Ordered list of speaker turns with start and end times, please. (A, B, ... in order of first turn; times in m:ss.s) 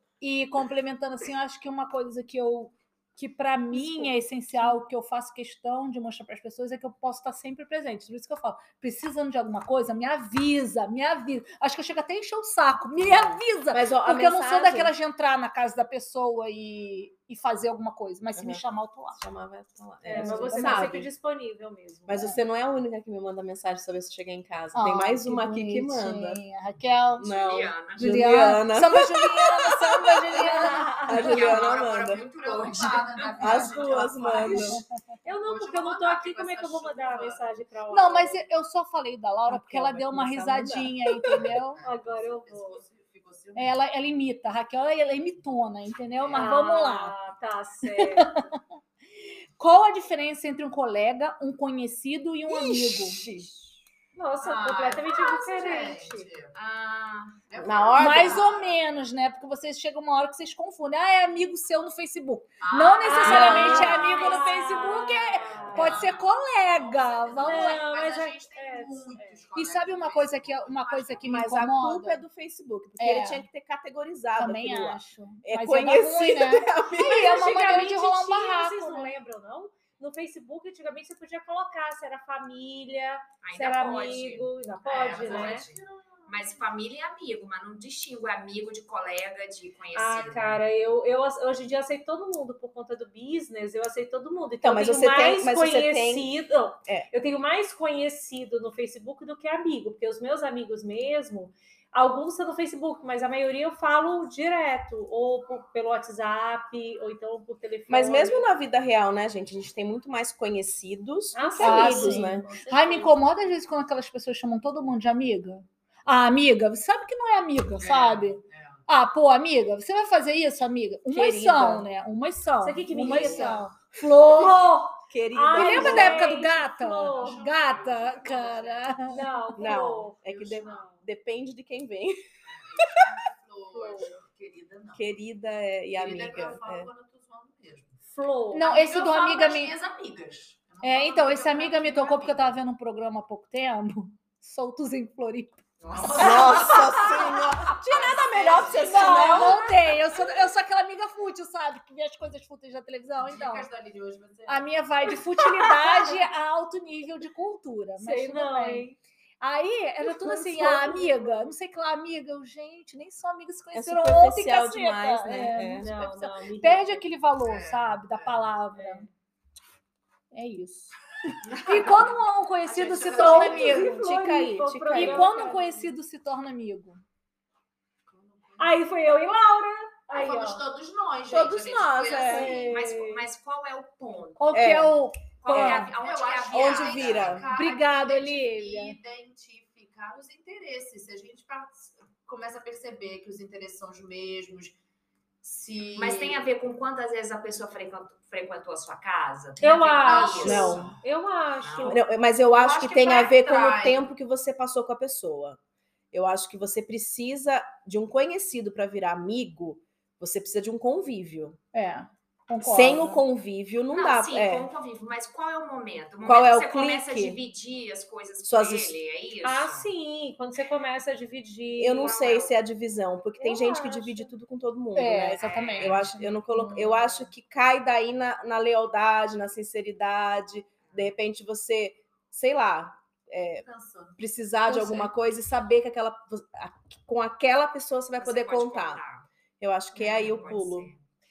0:00.2-0:19.2 A
0:13.7-0:14.9 B
0:18.3-0:18.6 B
0:19.1-0:21.1 B
0:20.0-0:21.0 A
0:20.0-0:22.4 C
0:22.1-0:26.4 B
0:24.7-0:27.3 A
0:27.2-0:32.2 B
0:27.3-0:28.3 D
0:28.0-0:31.3 A
0:30.8-0:31.2 C
0:31.0-0:33.8 D
0:31.4-0:34.8 E
0:33.4-0:34.8 B
0:34.5-0:34.8 A
0:35.2-0:38.4 C
0:35.4-0:37.5 E
0:37.9-0:41.8 A
0:39.5-0:41.4 B
0:41.3-0:43.8 E
0:41.8-0:42.8 C
0:43.6-0:47.1 A
0:46.2-0:46.5 E
0:46.3-0:48.3 C
0:47.9-0:48.6 A
0:49.6-0:53.2 A
0:52.5-0:53.5 B
0:54.1-0:56.3 C
0:54.4-0:56.5 E
0:56.5-0:57.4 D
0:57.5-0:59.0 E
0:57.6-0:58.5 B
0:58.0-1:07.9 A
1:02.6-1:11.5 E
1:03.0-1:06.1 C
1:03.2-1:05.0 D
1:03.2-1:03.7 B
1:07.4-1:09.4 C
1:09.5-1:12.2 A
1:11.3-1:17.6 B
1:13.0-1:13.4 A
1:14.4-1:19.1 A
1:17.0-1:25.6 C
1:23.4-1:30.6 D
1:25.0-1:26.6 E
1:29.9-1:48.5 C
1:34.6-1:36.3 B
1:47.9-1:52.4 B
1:51.3-1:53.2 C
1:51.6-2:04.6 A
1:57.8-1:58.8 E
2:01.1-2:01.9 B
2:02.6-2:03.6 C
2:03.0-2:03.6 B
2:04.2-2:07.4 C
2:05.1-2:06.3 B
2:05.5-2:09.2 A
2:07.0-2:09.6 E
2:09.1-2:11.0 C
2:09.6-2:12.2 B
2:10.2-2:10.8 E
2:12.4-2:15.2 E
2:13.7-2:14.2 C
2:14.9-2:16.9 B
2:15.9-2:18.0 E
2:18.1-2:18.6 C
2:18.5-2:19.8 A
2:18.6-2:22.5 E
2:20.8-2:26.8 A
2:25.8-2:29.4 E
2:26.2-2:29.7 B
2:28.3-2:29.6 C
2:28.7-2:33.7 A
2:33.2-2:34.8 E
2:34.5-2:38.9 A
2:38.0-2:39.0 C
2:39.4-2:49.1 A
2:43.7-2:45.9 B
2:45.7-2:47.1 C
2:47.4-2:48.6 E
2:48.8-2:49.1 C
2:50.3-2:53.9 A
2:51.4-2:52.0 E
2:52.7-2:53.9 E
2:53.0-2:55.9 C
2:53.4-2:55.3 B
2:54.9-2:57.0 A
2:58.1-2:58.8 E
2:58.6-3:00.6 C
3:00.1-3:02.7 E
3:01.3-3:03.2 B
3:02.2-3:04.8 D
3:04.4-3:05.9 A
3:04.5-3:04.9 B
3:05.4-3:07.4 D
3:05.5-3:05.9 B
3:05.8-3:14.8 E
3:06.5-3:07.5 B
3:07.5-3:09.0 A
3:15.4-3:16.4 E
3:16.0-3:20.9 D
3:19.6-3:22.0 C
3:20.1-3:20.9 E
3:20.4-3:20.9 B
3:21.6-3:22.0 D
3:21.9-3:25.6 B
3:22.5-3:24.0 E
3:26.1-3:31.6 B
3:31.7-3:33.2 A
3:32.6-3:34.7 B
3:33.9-3:39.9 D
3:36.2-3:37.4 B
3:38.4-3:39.0 B
3:39.4-3:42.5 C
3:41.8-3:53.6 B
3:43.4-3:44.3 C
3:45.0-3:46.0 A
3:45.4-3:46.1 D
3:46.5-3:46.9 A
3:53.6-3:54.2 E
3:54.2-3:59.0 B
3:54.7-3:55.1 A
3:58.2-3:59.3 D
3:59.6-4:00.9 B
3:59.9-4:01.0 D